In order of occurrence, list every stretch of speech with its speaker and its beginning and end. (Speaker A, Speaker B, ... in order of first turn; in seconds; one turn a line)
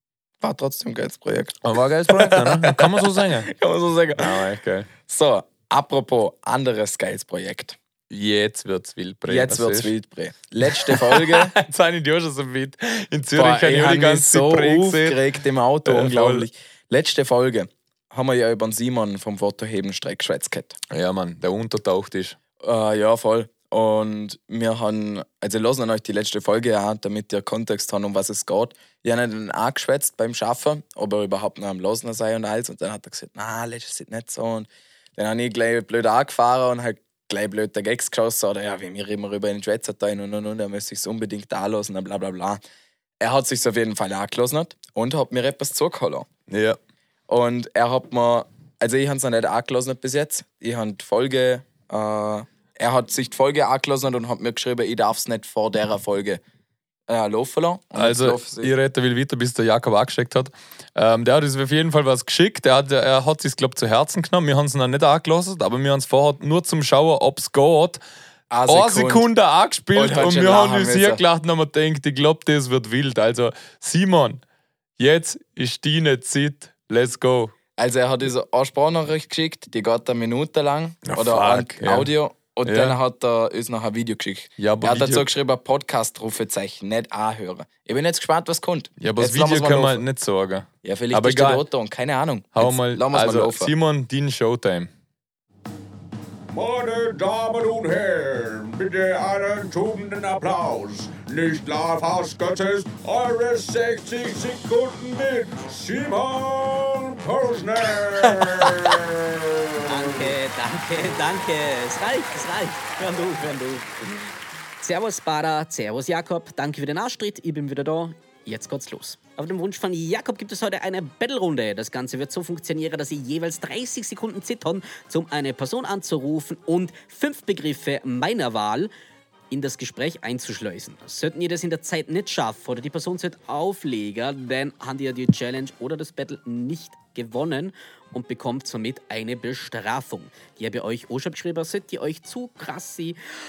Speaker A: 0.4-4.5
Speaker B: 1.6-3.5
Speaker B: 4.2-4.9
Speaker A: 5.1-7.8
Speaker B: 8.1-9.9
Speaker A: 9.3-11.5
Speaker B: 10.6-16.5
Speaker A: 13.3-20.8
Speaker B: 20.9-22.4
Speaker A: 22.6-42.6
Speaker A: 43.2-46.3
Speaker B: 46.5-46.8
Speaker A: 47.3-56.4
Speaker A: 57.1-58.7
Speaker B: 58.0-68.0
Speaker A: 68.5-69.3
Speaker B: 68.7-74.4
Speaker A: 70.0-71.2
Speaker B: 75.0-77.5
Speaker A: 77.8-90.0
Speaker B: 81.0-82.1
Speaker B: 82.6-83.0
Speaker B: 84.6-85.3
Speaker B: 89.0-91.6
Speaker A: 90.8-93.7
Speaker B: 92.5-94.9
Speaker C: 96.5-109.3
Speaker D: 109.8-114.0
Speaker D: 114.8-128.9
Speaker D: 129.5-143.2